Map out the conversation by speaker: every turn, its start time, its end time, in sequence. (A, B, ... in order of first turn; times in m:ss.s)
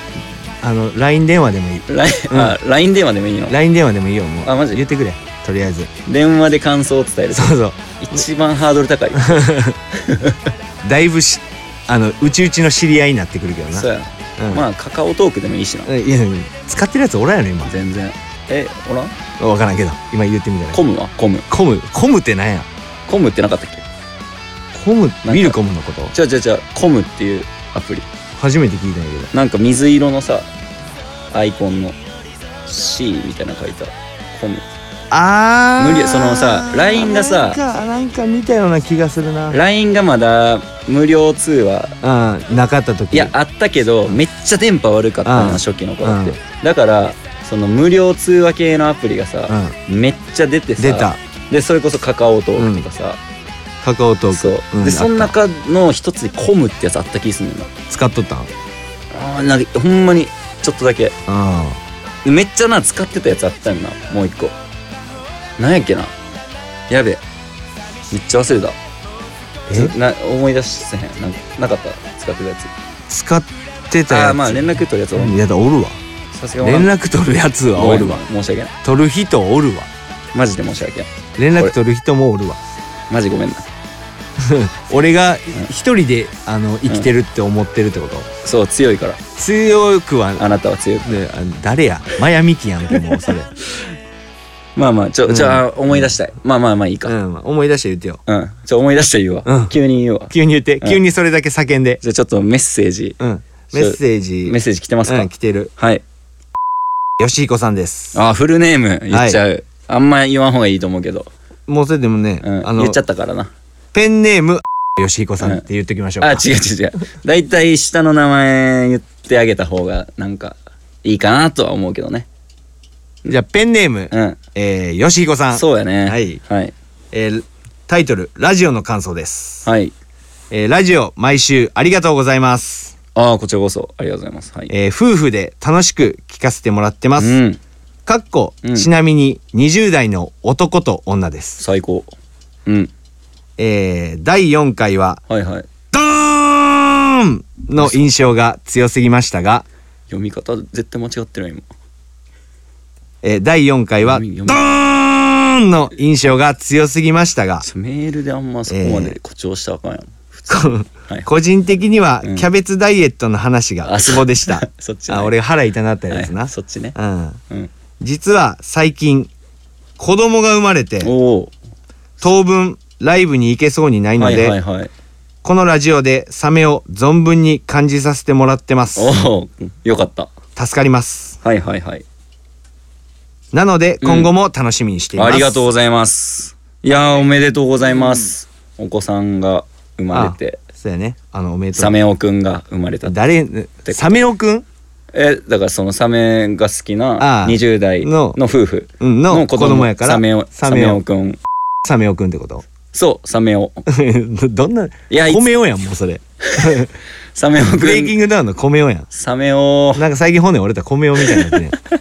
0:00.6-0:02.6 A
0:01.9-0:03.6 B
0:03.5-0:05.9 A
0:04.4-0:04.8 B
0:06.1-0:10.4 B
0:07.3-0:08.2 A
0:09.2-0:09.8 A
0:10.8-0:14.7 A
0:13.7-0:15.9 B
0:15.9-0:17.8 A
0:17.7-0:19.1 B
0:19.4-0:20.8 A
0:20.7-0:21.5 B
0:21.5-0:22.7 A
0:23.1-0:23.8 B
0:24.7-0:26.1 A
0:25.2-0:25.6 B
0:26.1-0:28.1 B
0:28.4-0:29.3 A
0:29.3-0:30.5 B
0:31.3-0:32.0 B
0:32.7-0:34.6 B
0:35.1-0:39.6 A
0:35.8-0:37.6 B
0:39.5-0:42.0 B
0:42.0-0:43.3 A
0:43.1-0:53.2 B
0:45.2-0:46.4 A
0:49.5-0:49.7 A
0:50.8-0:51.2 A
0:52.6-0:52.8 A
0:53.8-0:55.3 A
0:54.3-0:57.7 B
0:57.9-0:58.5 A
0:59.1-1:01.2 B
1:01.3-1:01.8 A
1:02.2-1:04.6 B
1:05.6-1:06.1 B
1:06.9-1:07.2 B
1:08.1-1:08.8 B
1:09.7-1:09.9 A
1:09.7-1:12.7 B
1:13.1-1:16.0 A
1:14.1-1:15.4 B
1:16.3-1:16.9 B
1:16.6-1:18.2 A
1:17.8-1:18.7 B
1:18.8-1:19.9 A
1:20.3-1:21.8 B
1:21.4-1:22.6 A
1:23.1-1:23.6 B
1:24.4-1:28.3 A
1:28.4-1:29.2 B
1:29.4-1:30.4 A
1:30.4-1:31.1 B
1:31.0-1:33.5 A
1:34.8-1:37.2 B
1:35.3-1:36.1 A
1:37.1-1:38.2 A
1:38.3-1:41.0 B
1:39.5-1:39.7 A
1:40.3-1:42.0 A
1:42.0-1:43.2 B
1:43.2-1:45.7 A
1:43.8-1:46.0 B
1:47.2-1:48.2 A
1:48.1-1:51.3 B
1:49.1-1:49.4 A
1:51.7-1:53.0 A
1:52.4-1:53.5 B
1:53.9-1:56.5 A
1:56.2-2:02.3 B
2:03.3-2:06.4 A
2:04.1-2:04.4 B
2:05.5-2:06.7 B
2:07.1-2:09.7 A
2:09.6-2:09.9 B
2:10.5-2:12.9 A
2:13.2-2:14.7 B
2:14.7-2:17.4 A
2:17.2-2:17.6 B
2:18.1-2:21.6 A
2:18.6-2:18.9 B
2:21.6-2:22.1 B
2:22.7-2:22.9 B
2:23.6-2:25.2 A
2:25.3-2:25.7 B
2:25.9-2:29.6 A
2:30.1-2:31.7 B
2:33.2-2:37.7 A
2:34.0-2:34.6 B
2:37.6-2:41.3 B
2:38.7-2:39.2 A
2:40.5-2:47.4 A
2:43.8-2:45.3 B
2:46.1-2:47.0 B
2:48.0-2:49.3 A
2:50.0-2:51.1 A
2:51.0-2:51.5 B
2:52.2-2:54.6 A
2:54.2-2:54.9 B
2:55.4-2:59.1 A
2:59.0-3:00.3 B
3:00.6-3:01.4 A
3:01.4-3:02.0 B
3:03.5-3:05.6 A
3:04.0-3:04.3 B
3:05.2-3:10.6 B
3:10.1-3:12.0 A
3:11.8-3:13.2 B
3:13.1-3:14.7 A
3:13.9-3:14.2 B
3:15.1-3:21.4 B
3:17.2-3:18.4 A
3:19.0-3:21.0 A
3:21.8-3:22.6 A
3:22.9-3:23.8 B
3:23.9-3:26.9 A
3:25.1-3:25.5 B
3:26.5-3:26.8 B
3:27.4-3:28.2 B
3:27.6-3:29.1 A
3:29.1-3:30.0 B
3:30.0-3:31.8 A
3:31.2-3:31.5 B